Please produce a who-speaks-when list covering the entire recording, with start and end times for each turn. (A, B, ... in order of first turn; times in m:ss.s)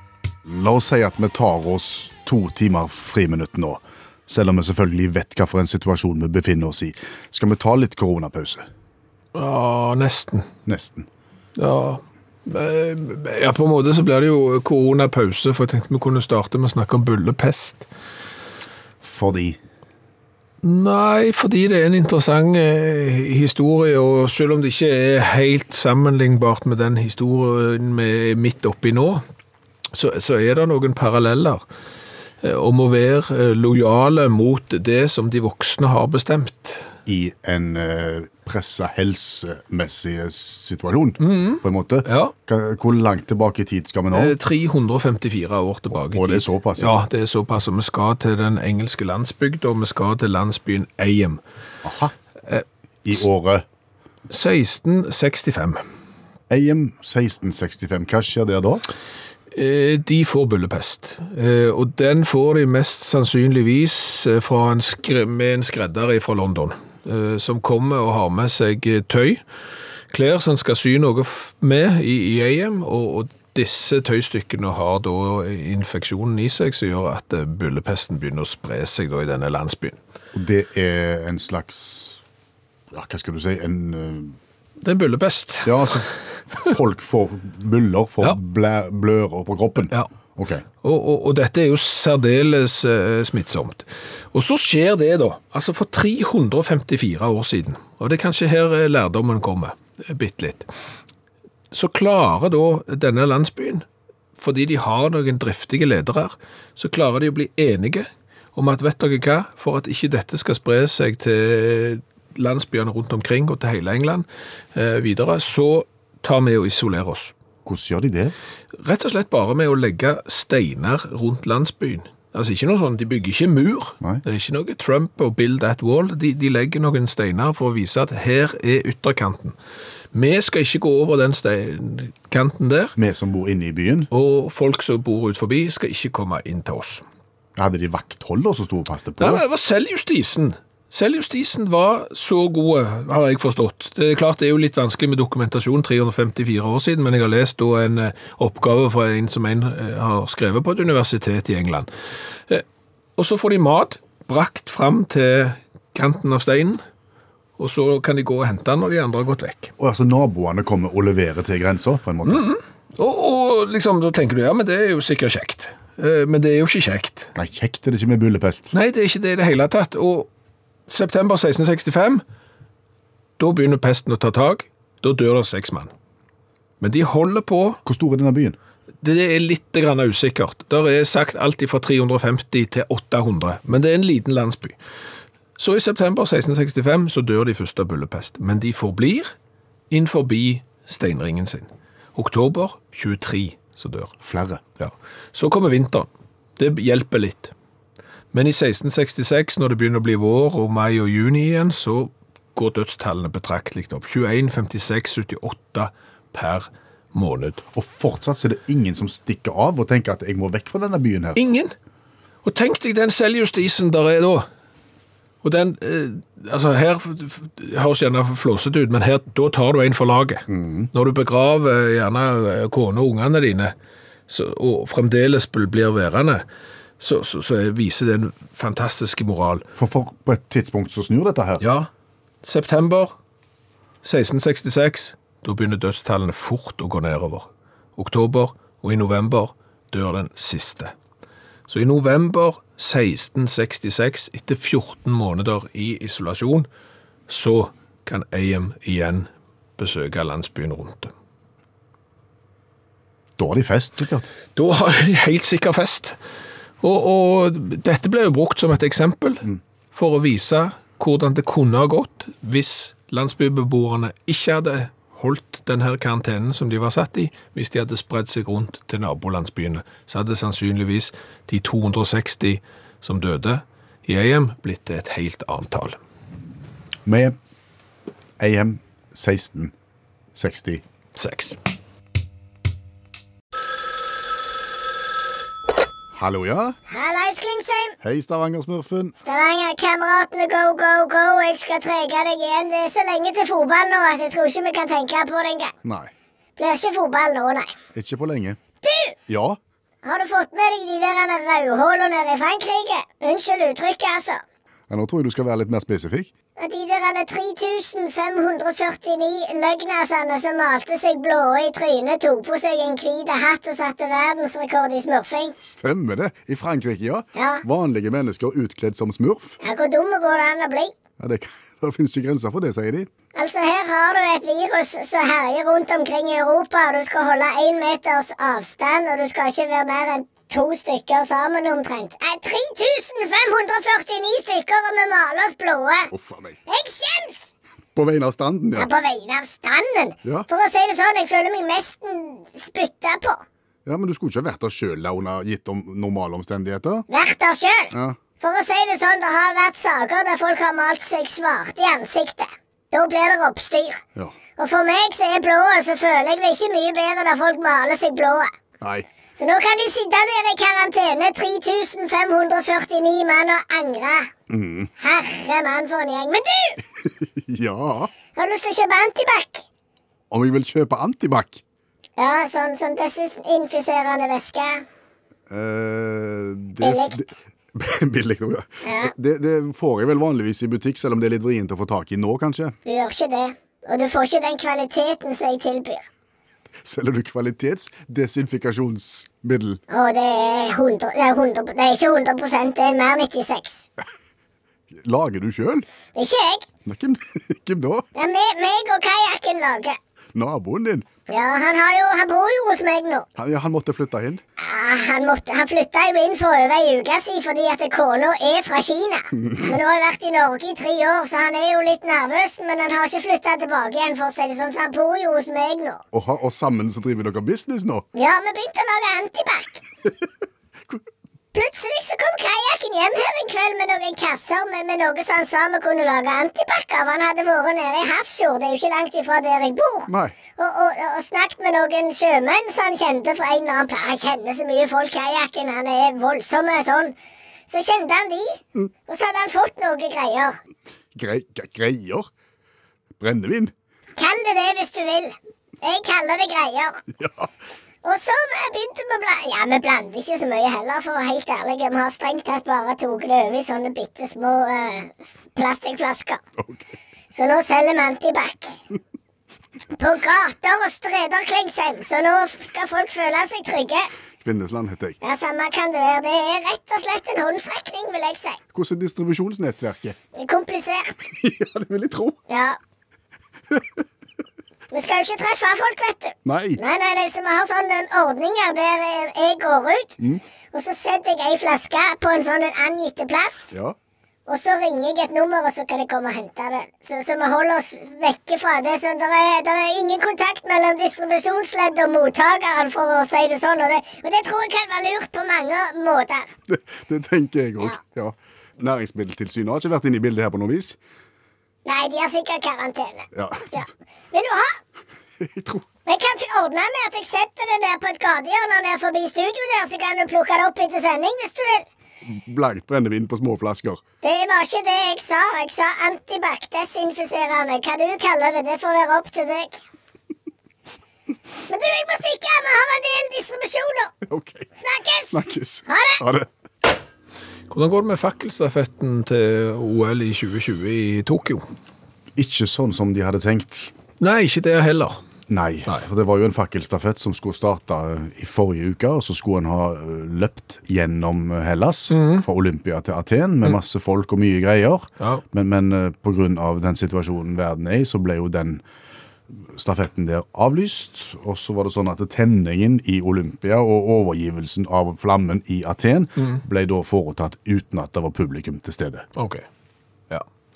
0:00.4-0:08.6 A
0:09.3-0:10.5 B
0:10.6-0:11.1 A
0:11.6-0:17.9 B
0:19.0-0:19.6 A
0:20.6-0:29.2 B
0:29.9-0:31.6 B
0:32.4-0:36.9 B
0:37.0-0:44.3 A
0:41.2-0:42.3 B
0:44.1-0:51.4 B
0:46.1-0:47.0 A
0:51.8-0:52.1 A
0:53.0-0:53.6 A
0:54.3-0:55.8 B
0:56.5-0:58.8 A
0:59.5-1:09.4 B
1:10.1-1:20.0 B
1:20.3-1:22.2 A
1:22.9-1:24.4 A
1:24.8-1:26.1 B
1:25.6-1:30.6 A
1:30.8-1:40.7 B
1:41.7-1:43.8 B
1:44.4-1:57.3 B
1:57.6-1:58.3 A
1:58.8-2:09.5 B
2:10.1-2:12.9 B
2:13.0-2:14.1 A
2:14.1-2:17.0 B
2:17.6-2:19.4 A
2:19.2-2:31.9 B
2:33.2-2:36.8 B
2:37.6-2:39.7 B
2:39.8-2:42.4 A
2:42.2-2:47.3 B
2:47.3-2:48.7 A
2:48.7-2:50.3 B
2:50.9-2:52.2 B
2:53.4-2:55.9 B
2:56.8-2:57.8 B
2:57.8-2:58.6 A
2:59.0-3:04.8 B
3:05.6-3:09.3 B
3:09.9-3:14.1 B
3:14.2-3:14.6 A
3:14.8-3:17.5 B
3:18.3-3:27.6 B
3:27.7-3:31.4 A
3:31.4-3:31.7 B
3:32.4-3:34.5 B
3:35.4-3:43.7 B
3:40.5-3:40.9 A
3:44.3-3:46.4 B
3:47.0-3:49.7 B
3:49.8-3:51.6 A
3:51.6-3:51.9 B
3:52.4-3:53.1 B
3:54.0-4:00.9 B
4:01.7-4:06.7 B
4:07.3-4:11.1 B
4:13.4-4:14.3 A
4:14.6-4:16.2 B
4:16.8-4:36.0 B
4:37.0-4:37.4 A
4:38.4-4:39.7 A
4:40.3-4:40.8 A
4:41.1-4:41.6 B
4:46.1-4:46.8 A
4:46.9-4:48.0 C
4:48.0-4:49.1 A
4:49.2-4:55.7 C
4:55.8-4:56.1 A
4:56.6-4:57.7 C
4:57.9-4:58.6 A
4:58.8-4:59.2 C
4:59.3-4:59.6 A
5:00.0-5:04.4 C
5:04.9-5:06.3 A
5:06.6-5:15.5 C
5:15.6-5:19.6 A
5:17.4-5:17.6 C
5:19.6-5:20.9 C
5:21.2-5:23.1 A
5:23.3-5:36.1 C
5:36.1-5:36.6 A
5:36.7-5:37.5 C
5:38.0-5:38.9 A
5:38.7-5:43.4 C
5:43.8-5:47.0 A
5:47.1-5:54.0 C
5:47.9-5:48.2 A
5:54.6-5:58.5 C
5:58.8-5:59.0 A
5:59.4-6:04.3 C
6:04.5-6:04.9 A
6:05.0-6:06.8 C
6:07.0-6:08.1 A
6:08.3-6:09.6 C
6:10.3-6:11.6 A
6:12.2-6:14.8 C
6:15.5-6:22.8 A
6:16.8-6:17.2 C
6:18.8-6:19.1 C
6:22.8-6:26.1 C
6:26.8-6:29.8 A
6:29.9-6:33.9 C
6:34.9-6:35.8 A
6:36.2-6:36.7 C
6:36.8-6:38.0 A
6:38.1-6:40.0 C
6:40.3-6:41.1 A
6:41.3-6:43.3 C
6:43.4-6:44.4 A
6:44.6-6:56.0 C
6:49.5-6:49.7 A
6:56.1-6:58.0 A
6:58.1-6:59.8 C
7:01.5-7:17.2 C
7:10.1-7:10.3 A
7:17.7-7:20.6 C
7:21.1-7:22.3 A
7:23.2-7:23.7 A
7:24.2-7:27.0 C
7:27.1-7:27.5 A
7:28.0-7:36.4 C
7:36.6-7:36.9 A
7:37.3-7:38.8 C
7:40.0-7:44.1 C
7:44.4-7:45.2 A
7:45.2-7:48.6 C
7:48.7-7:50.2 A
7:50.3-7:51.2 C
7:51.3-7:52.4 A
7:52.5-7:52.8 C
7:53.7-7:54.0 A
7:54.9-8:00.2 C
7:56.4-7:56.8 A
8:00.7-8:03.7 C
8:04.5-8:16.5 C
8:16.7-8:21.0 A
8:21.8-8:24.8 C
8:23.3-8:23.8 A
8:25.4-8:25.8 A
8:26.0-8:31.9 C
8:32.2-8:34.0 A
8:34.2-8:39.8 C
8:41.7-8:44.1 C
8:44.2-8:44.7 A
8:44.8-8:46.2 C
8:45.3-8:46.5 A
8:47.7-8:51.6 B
8:52.4-8:53.9 A
8:54.2-8:55.2 B
8:55.5-9:08.8 A
9:02.1-9:02.4 B
9:09.5-9:19.3 A
9:19.4-9:19.6 B